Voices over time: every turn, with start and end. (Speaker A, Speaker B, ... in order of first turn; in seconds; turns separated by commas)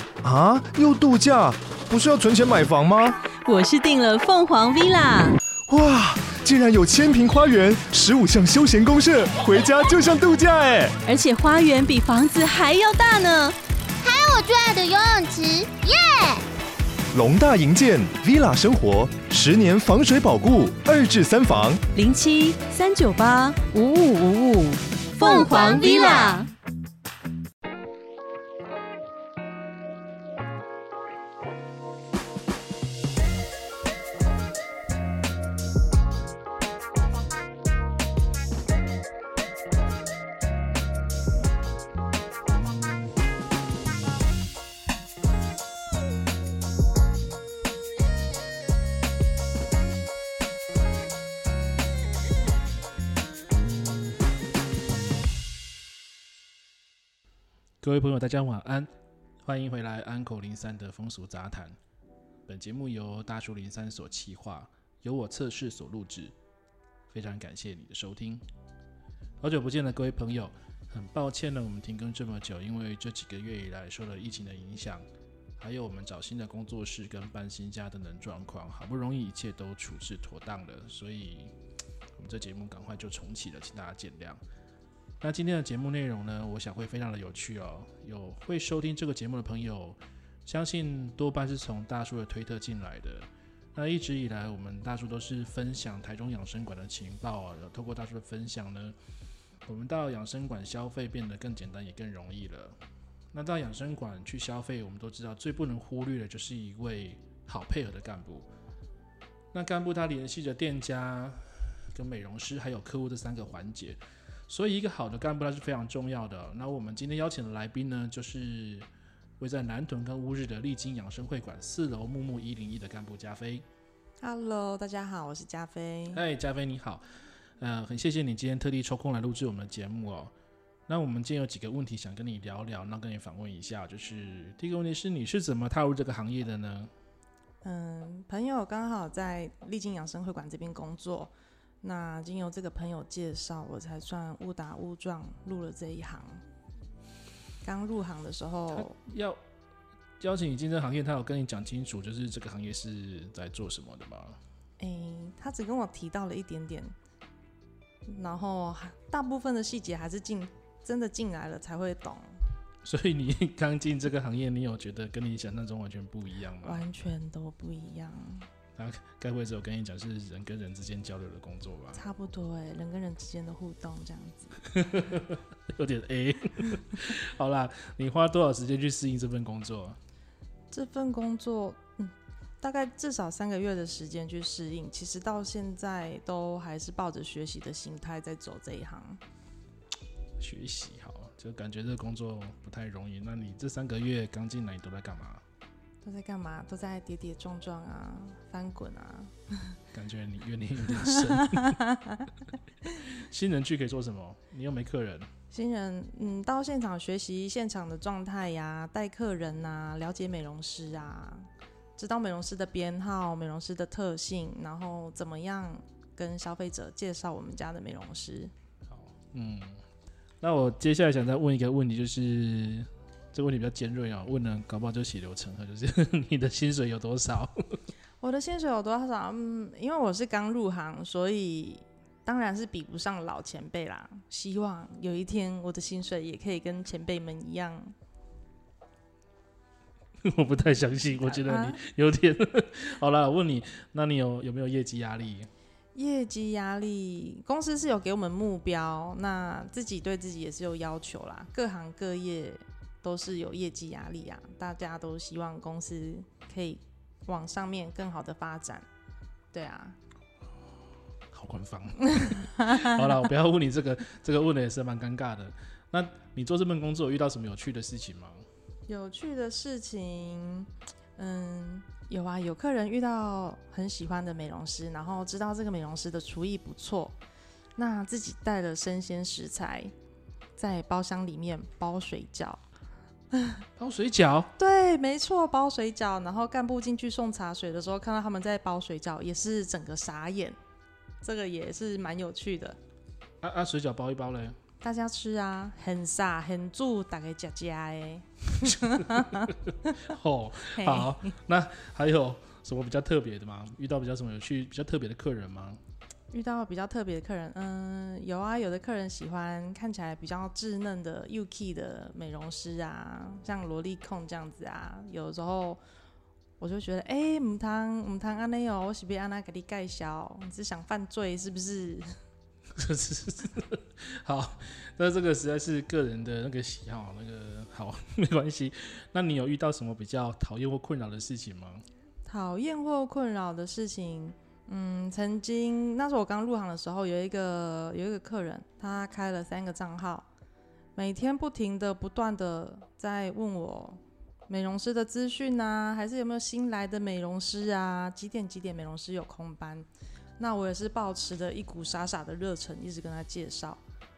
Speaker A: 0.2-3.2, Speaker B: 3.5-5.4, Speaker A: 5.7-10.9, Speaker B: 11.1-13.6, Speaker C: 14.0-16.4, Speaker A: 17.1-21.8, Speaker B: 21.9-26.5, Speaker C: 25.2-26.4, Speaker D: 57.8-58.9, Speaker D: 59.4-61.8, Speaker D: 62.5-66.3, Speaker D: 67.1-68.4, Speaker D: 69.4-75.0, Speaker D: 75.6-81.5, Speaker D: 82.2-84.4, Speaker D: 85.2-99.0, Speaker D: 99.7-102.8, Speaker D: 103.3-108.5, Speaker D: 109.5-114.0, Speaker D: 114.5-118.9, Speaker D: 119.4-123.6, Speaker E: 124.2-126.2, Speaker D: 126.1-127.0, Speaker D: 127.6-130.3, Speaker D: 130.9-136.9, Speaker E: 137.6-146.4, Speaker E: 147.6-148.9, Speaker D: 148.7-149.4, Speaker D: 150.2-154.4, Speaker E: 154.8-156.9, Speaker E: 158.1-162.4, Speaker D: 162.8-166.8, Speaker E: 166.6-168.5, Speaker D: 168.8-172.0, Speaker E: 171.9-174.6, Speaker D: 174.7-180.0, Speaker E: 180.7-189.2, Speaker D: 190.4-195.4, Speaker E: 196.0-199.8, Speaker D: 199.9-201.8, Speaker E: 201.0-202.3, Speaker D: 203.0-205.3, Speaker E: 205.5-218.5, Speaker D: 218.9-219.8, Speaker D: 220.4-227.8, Speaker E: 228.2-237.9, Speaker D: 240.2-245.5, Speaker E: 241.2-241.8, Speaker E: 245.9-258.9, Speaker E: 259.5-260.0, Speaker D: 261.3-268.4, Speaker E: 268.9-277.2, Speaker E: 277.8-279.9, Speaker E: 280.6-282.6, Speaker E: 283.3-283.6, Speaker D: 283.8-284.5, Speaker E: 284.6-290.6, Speaker E: 291.2-292.8, Speaker D: 293.4-294.6, Speaker E: 294.8-299.5, Speaker D: 298.8-305.8, Speaker E: 300.7-301.3, Speaker E: 306.3-315.8, Speaker E: 316.6-322.2, Speaker D: 322.8-331.9, Speaker E: 332.2-340.3, Speaker E: 340.9-353.8